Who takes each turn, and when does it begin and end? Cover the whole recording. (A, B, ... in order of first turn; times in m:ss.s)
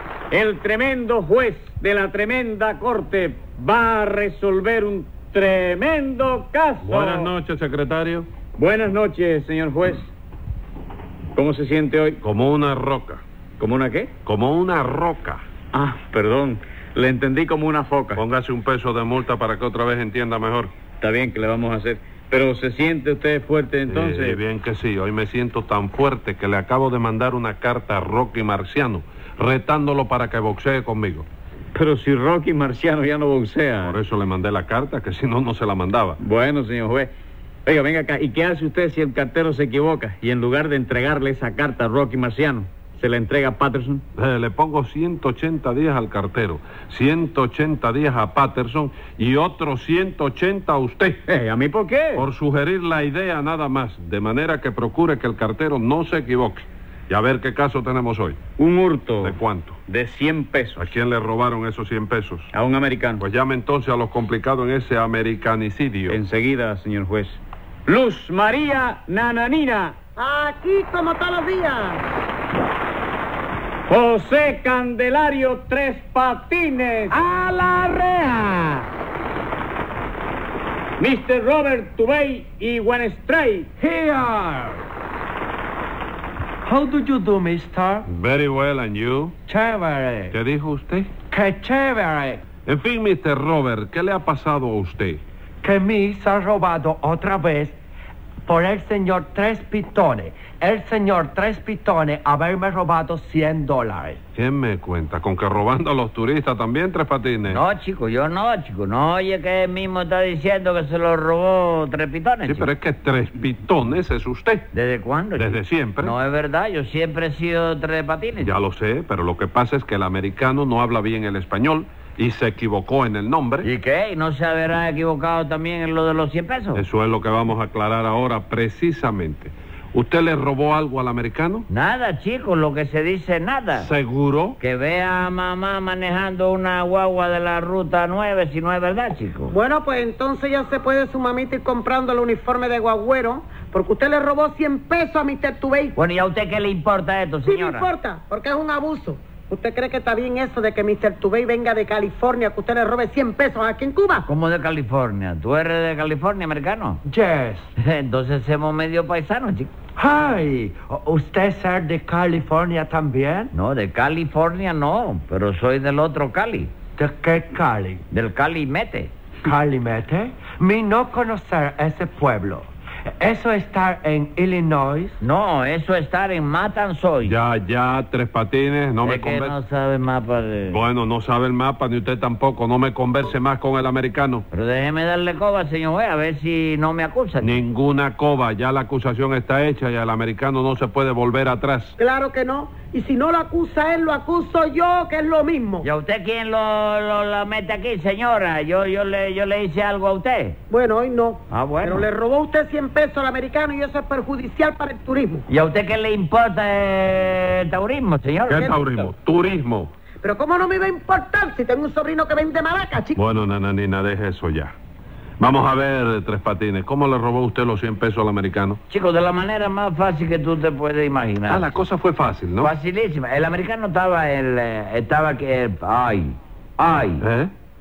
0:00.3-0:07.3 A
0:06.8-0:08.3 B
0:08.5-0:10.1 A
0:11.3-0:12.2 A
0:12.2-0:13.2 B
0:13.6-0:14.1 A
0:14.2-0:15.4 B
0:15.7-0:18.2 A
0:18.1-0:20.7 B
0:20.9-0:24.4 A
0:23.9-0:31.3 B
0:31.7-0:34.0 A
0:33.8-0:36.2 B
0:36.2-0:37.1 A
0:37.6-0:44.0 A
0:44.2-0:51.2 B
0:51.3-0:52.2 A
0:52.2-0:58.4 B
0:58.6-1:00.9 A
0:59.2-0:59.8 B
1:00.8-1:02.5 B
1:02.5-1:03.2 A
1:03.2-1:06.2 B
1:06.1-1:09.9 A
1:10.2-1:12.0 C
1:13.9-1:18.7 A
1:21.0-1:23.7 A
1:23.8-1:24.8 D
1:26.6-1:28.1 D
1:28.0-1:29.4 B
1:29.5-1:30.3 D
1:30.3-1:31.1 B
1:31.3-1:32.4 D
1:32.6-1:35.2 B
1:35.6-1:37.8 D
1:38.4-1:44.2 D
1:44.4-1:47.6 B
1:47.5-1:52.7 E
1:52.4-1:54.7 B
1:54.7-1:58.5 E
1:55.4-1:56.1 B
1:58.4-2:03.7 B
2:03.6-2:06.8 E
2:06.7-2:11.7 B
2:11.7-2:13.9 E
2:13.7-2:14.6 B
2:14.6-2:19.5 E
2:19.5-2:26.0 C
2:26.0-2:27.9 E
2:27.4-2:34.2 C
2:34.2-2:37.0 E
2:37.0-2:37.7 D
2:37.8-2:39.7 E
2:40.0-2:43.5 D
2:43.5-2:46.7 E
2:47.0-2:48.0 D
2:48.1-2:49.1 E
2:49.4-2:52.6 D
2:53.2-2:55.2 D
2:55.2-2:57.4 E
2:57.2-2:59.6 B
2:59.0-3:00.8 E
3:00.7-3:04.4 B
3:04.5-3:07.6 E
3:07.4-3:11.9 B
3:12.0-3:15.9 C
3:15.8-3:20.6 E
3:20.7-3:25.4 C
3:21.5-3:22.0 E
3:25.5-3:28.8 E
3:28.5-3:29.9 B
3:30.2-3:33.2 C
3:33.2-3:34.7 B
3:35.4-3:38.8 B
3:38.9-3:41.8 E
3:41.5-3:42.7 B
3:42.6-3:47.2 E
3:47.2-3:47.5 B